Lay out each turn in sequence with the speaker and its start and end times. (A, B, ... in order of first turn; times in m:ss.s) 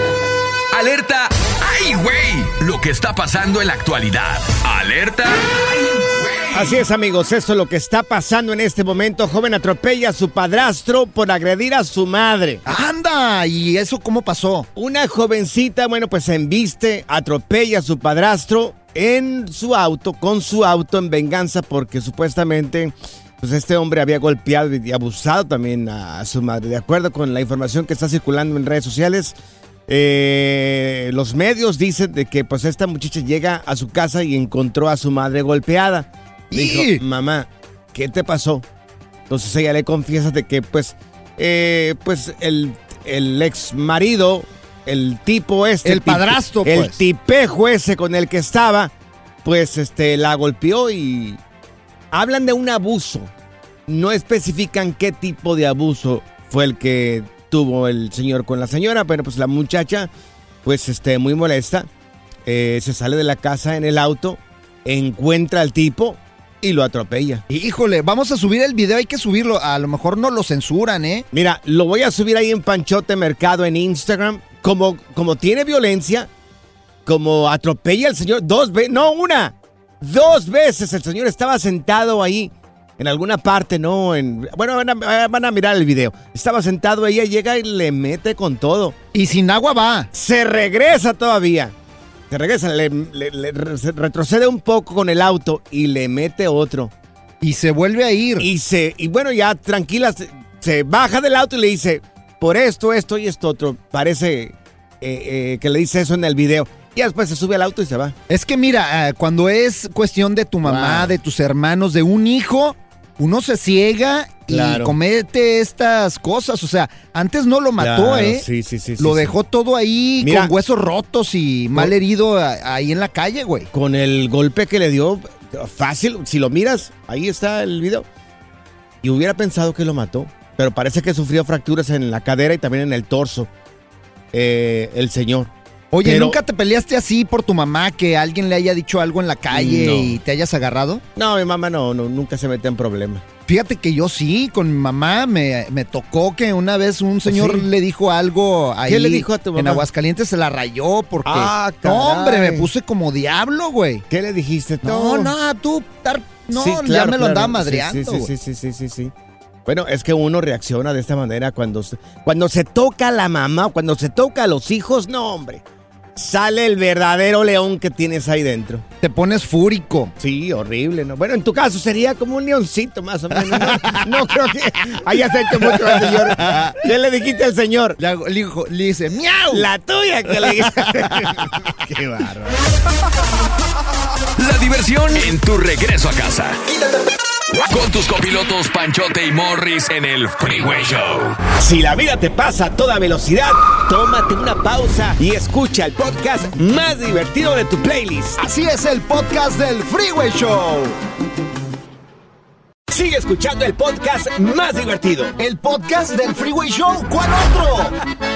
0:00.7-0:06.8 A
0:06.5-0:12.6 B
0:12.6-0:14.7 C
0:14.8-0:29.4 B
0:29.9-0:38.6 B
0:36.5-0:37.0 C
0:39.3-0:48.9 B
0:45.8-0:47.0 C
0:49.4-0:51.4 B
0:52.1-0:53.3 B
0:53.9-1:00.1 B
1:00.6-1:01.9 B
1:02.5-1:07.4 B
1:07.5-1:11.3 C
1:11.3-1:16.3 B
1:17.1-1:29.0 B
1:29.1-1:30.1 C
1:30.1-1:31.7 B
1:32.3-1:36.9 B
1:37.4-1:38.5 C
1:38.4-1:48.2 B
1:48.3-1:58.4 C
1:50.6-1:51.1 B
1:54.5-1:55.0 B
1:57.8-1:59.3 B
1:59.0-2:03.7 C
2:00.2-2:00.5 B
2:03.7-2:08.1 B
2:09.0-2:13.5 B
2:14.3-2:15.5 B
2:15.9-2:21.0 C
2:16.0-2:16.4 B
2:19.5-2:20.2 B
2:21.2-2:23.2 B
2:23.5-2:34.0 C
2:27.3-2:27.7 B
2:28.9-2:29.9 B
2:31.2-2:32.7 B
2:34.1-2:35.3 B
2:34.8-2:38.3 C
2:36.5-2:39.1 B
2:39.6-2:45.6 B
2:46.2-2:48.9 B
2:49.0-2:50.1 C
2:50.2-2:58.0 B
2:53.4-2:54.1 C
2:55.6-2:56.8 C
2:58.0-2:59.7 C
2:59.5-3:02.6 B
3:00.4-3:00.9 C
3:04.4-3:06.6 A
3:07.7-3:11.4 A
3:11.6-3:18.4 B
3:18.4-3:21.0 C
3:22.9-3:25.4 B
3:25.4-3:28.0 C